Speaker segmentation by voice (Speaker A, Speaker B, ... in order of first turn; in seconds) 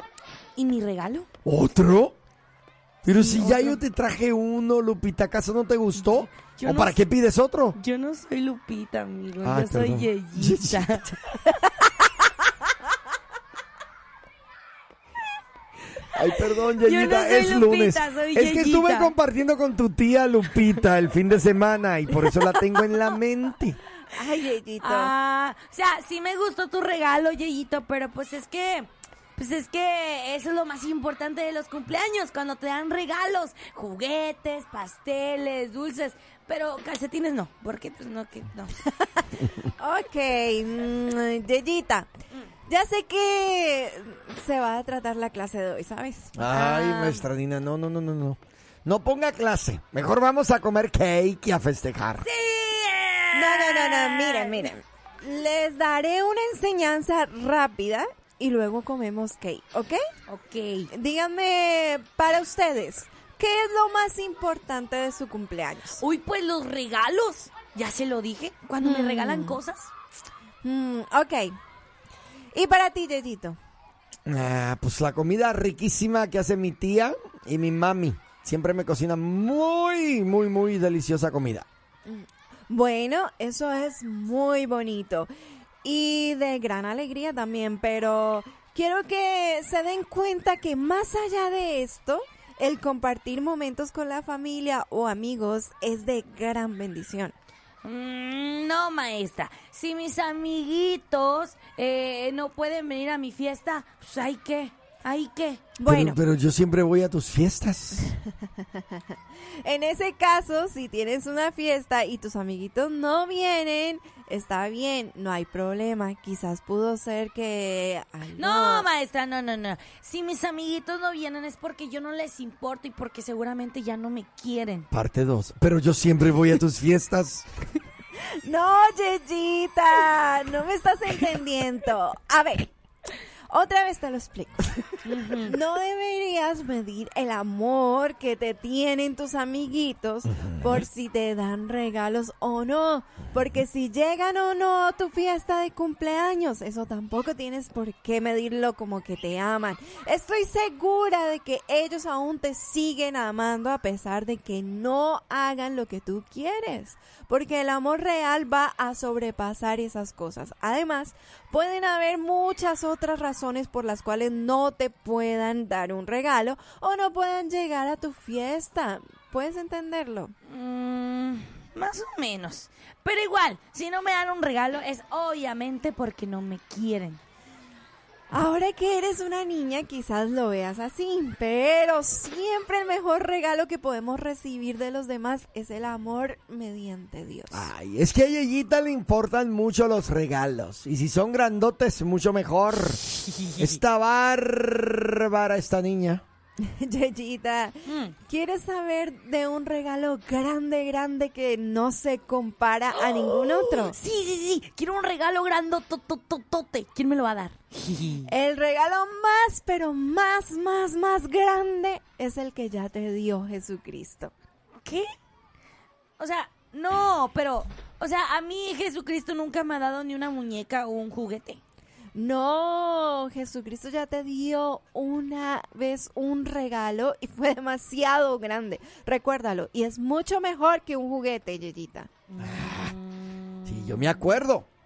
Speaker A: 0.6-1.3, 3.1-3.8, 5.9-7.0, 7.7-11.2, 16.8-19.1, 24.8-38.7, 46.5-47.2, 52.2-54.7, 60.3-60.9, 66.0-69.9, 97.8-105.6, 118.3-124.9, 135.0-135.5, 170.5-177.2, 193.3-193.8, 197.8-198.1, 203.5-208.3, 216.2-221.6, 232.3-234.2
Speaker B: 1.4-2.2, 3.0-7.8, 9.4-11.0, 16.1-23.8, 46.3-52.3, 74.3-81.7, 105.8-108.1, 124.9-127.5, 140.4-140.8, 187.5-196.2, 232.4-232.9, 233.6-234.7
Speaker C: 24.1-25.1, 39.8-42.1, 42.7-46.4, 53.3-60.0, 60.9-66.0, 68.8-69.6, 70.6-71.5, 72.5-73.6, 82.0-85.3, 85.8-97.3, 105.8-106.2, 109.6-118.9, 128.4-132.7, 133.5-170.3, 178.3-187.7, 196.6-203.9, 208.2-214.3, 222.1-232.1